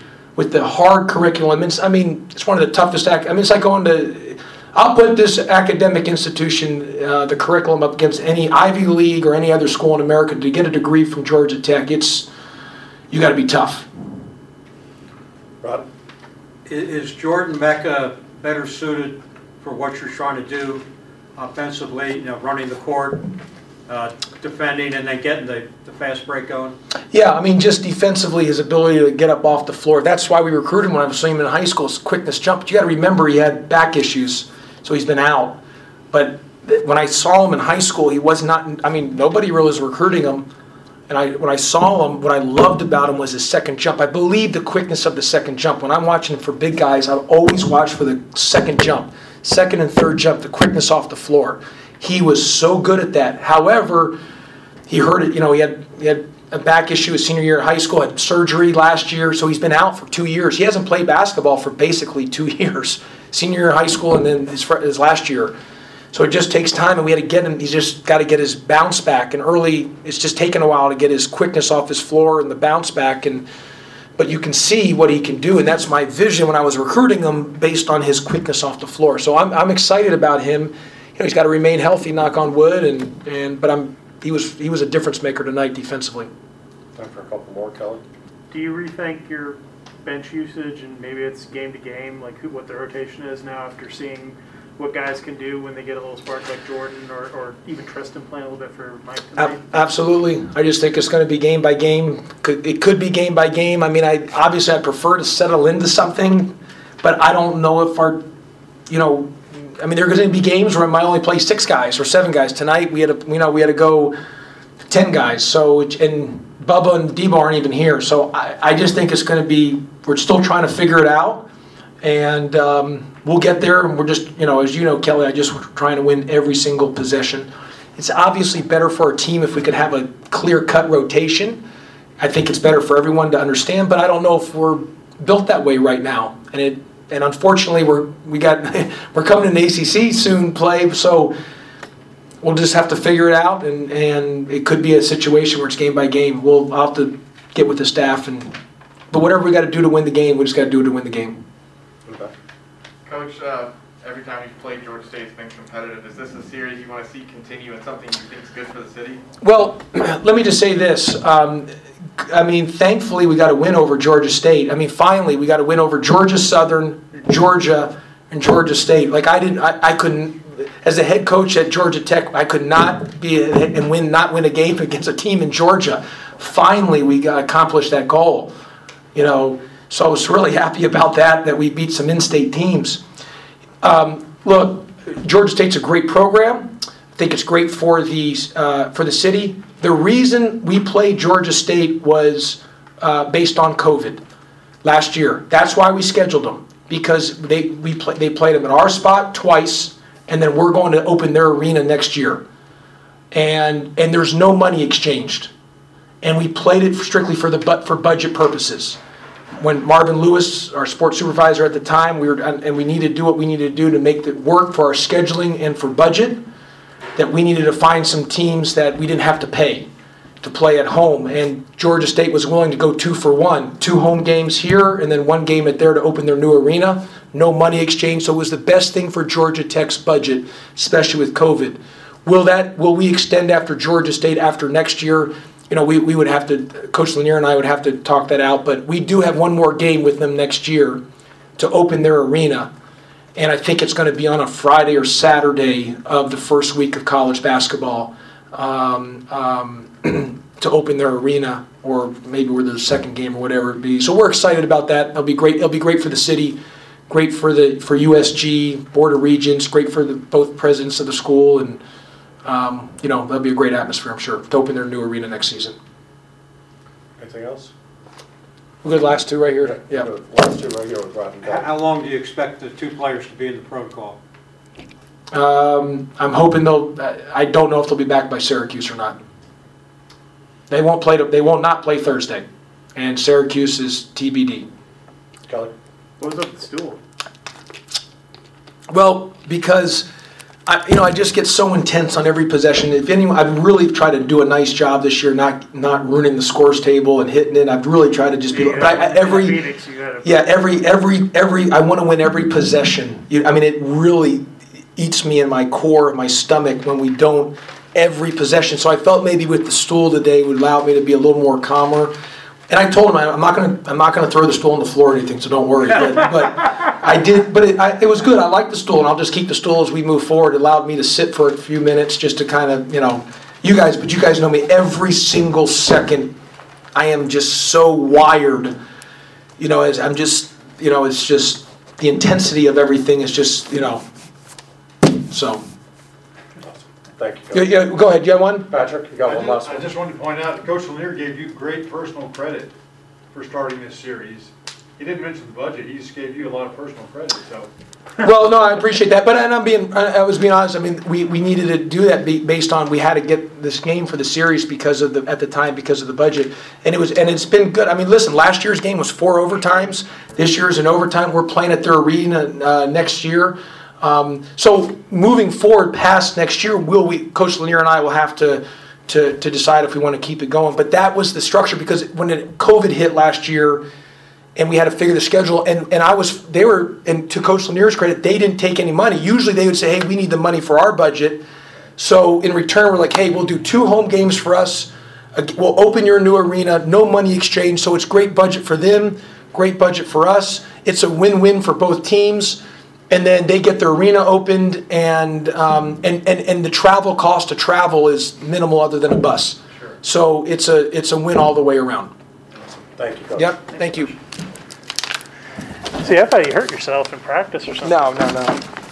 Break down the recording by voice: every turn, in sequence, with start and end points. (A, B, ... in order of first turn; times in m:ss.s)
0:00.4-0:12.3 A
0:13.1-0:13.9 A
0:15.6-0:15.9 B
0:16.7-0:20.8 C
0:21.4-0:23.3 C
0:23.9-0:26.8 C
0:27.1-0:35.6 A
0:36.1-0:40.5 A
0:41.1-0:54.2 A
0:54.9-1:05.5 A
1:06.1-1:13.4 A
1:14.2-1:26.3 A
1:27.0-1:28.0 B
1:28.5-1:39.9 D
1:39.4-1:48.2 A
1:48.9-1:54.2 A
1:54.9-2:01.5 A
2:02.0-2:11.6 A
2:12.2-2:21.3 A
2:22.4-2:28.5 A
2:29.1-2:31.4 A
2:32.1-2:32.3 B
2:33.0-2:39.2 E
2:39.4-2:58.5 A
2:59.2-3:03.0 A
3:03.8-3:14.2 A
3:14.8-3:22.4 A
3:23.3-3:25.5 A
3:26.2-3:29.0 A
3:29.6-3:36.4 A
3:37.2-3:39.9 A
3:40.4-4:01.0 A
4:01.6-4:02.7 A
4:03.4-4:16.6 A
4:17.1-4:21.8 A
4:22.4-4:25.8 A
4:27.2-4:27.7 B
4:28.8-4:30.1 A
4:29.6-4:31.7 B
4:31.4-4:34.2 C
4:35.3-4:39.2 A
4:40.7-4:42.4 A
4:43.0-4:44.7 A
4:46.2-4:47.0 D
4:48.9-4:50.1 A
4:50.7-4:59.6 A
4:58.5-5:00.6 D
5:00.2-5:04.4 A
5:05.0-5:12.1 A
5:12.7-5:26.3 A
5:27.0-5:28.7 A
5:29.6-5:34.0 A
5:35.1-5:35.6 A
5:37.2-5:37.7 B
5:37.5-5:38.7 A
5:38.7-5:39.9 B
5:39.2-5:42.7 F
5:43.3-5:47.7 F
5:48.2-6:13.8 A
6:14.6-6:21.4 A
6:22.0-6:42.1 A
6:42.8-6:43.5 B
6:43.4-6:44.2 A
6:46.0-6:48.4 D
6:47.8-6:48.6 A